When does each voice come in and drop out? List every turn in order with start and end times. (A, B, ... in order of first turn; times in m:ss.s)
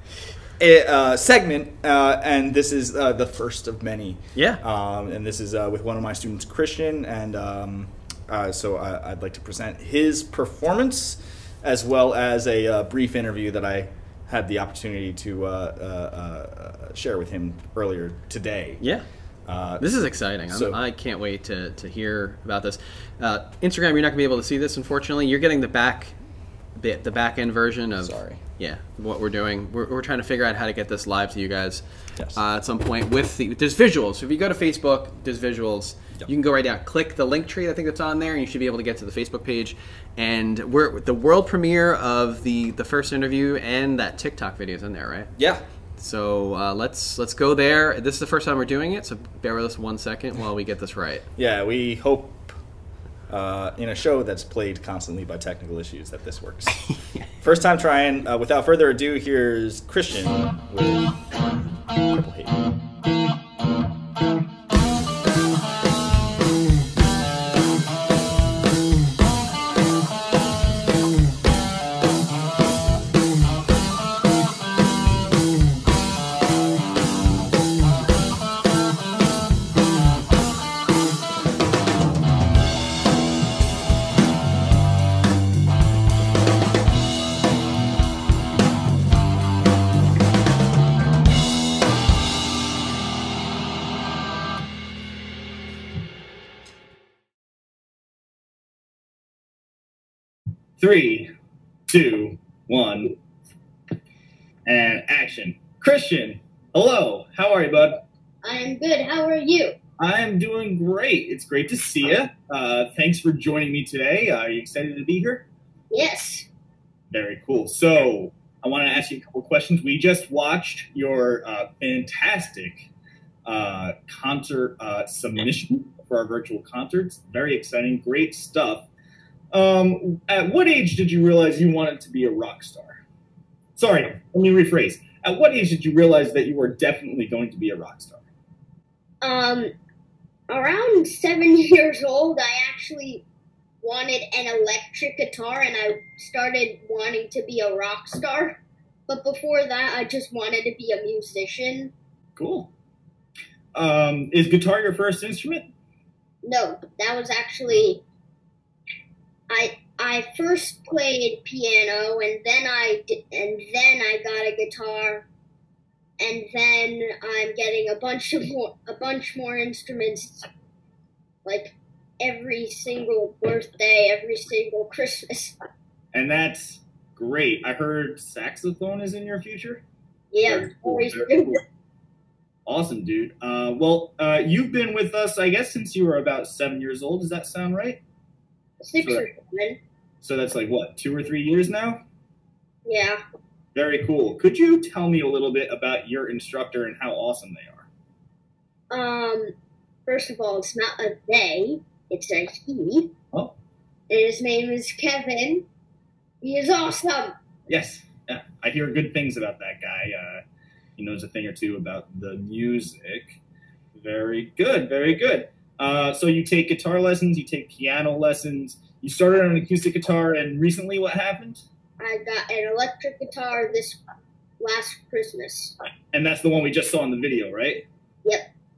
0:00.6-0:18.8 A
0:04.3-0:04.6 B
0:18.8-0:19.0 B
0:19.4-0:19.9 A
0:19.8-0:26.1 B
0:20.5-0:20.8 A
0:26.8-0:31.8 B
0:28.0-0:28.4 A
0:32.3-0:45.3 B
0:45.4-0:45.6 A
0:46.0-0:51.2 B
0:51.4-0:52.5 A
0:53.3-0:56.8 A
0:57.4-1:02.7 A
1:40.8-1:41.3 C
1:41.9-1:43.2 C
1:44.6-1:48.0 C
1:48.4-1:49.8 D
1:50.0-1:55.4 C
1:55.9-1:56.5 D
1:57.1-2:02.8 C
2:03.4-2:08.8 C
2:09.5-2:13.0 C
2:13.8-2:18.2 C
2:19.2-2:19.7 D
2:20.5-2:23.2 D
2:23.8-2:31.9 D
2:32.4-2:32.7 C
2:33.7-2:35.7 C
2:36.4-2:38.0 D
2:39.5-2:45.2 D
2:46.2-2:50.5 D
2:51.4-2:55.6 D
2:56.1-2:59.8 C
3:00.3-3:01.6 D
3:00.4-3:01.6 C
3:02.6-3:08.0 C
3:08.8-3:09.8 D
3:10.2-3:12.0 C
3:12.8-3:13.2 D
3:13.7-3:17.9 C
3:18.9-3:19.5 D
3:20.1-3:23.1 D
3:24.1-3:25.6 D
3:26.4-3:27.3 D
3:27.7-3:30.4 C
3:31.0-3:33.4 C
3:33.9-3:41.6 C
3:42.0-3:44.0 D
3:44.6-3:45.8 D
3:46.1-3:47.8 C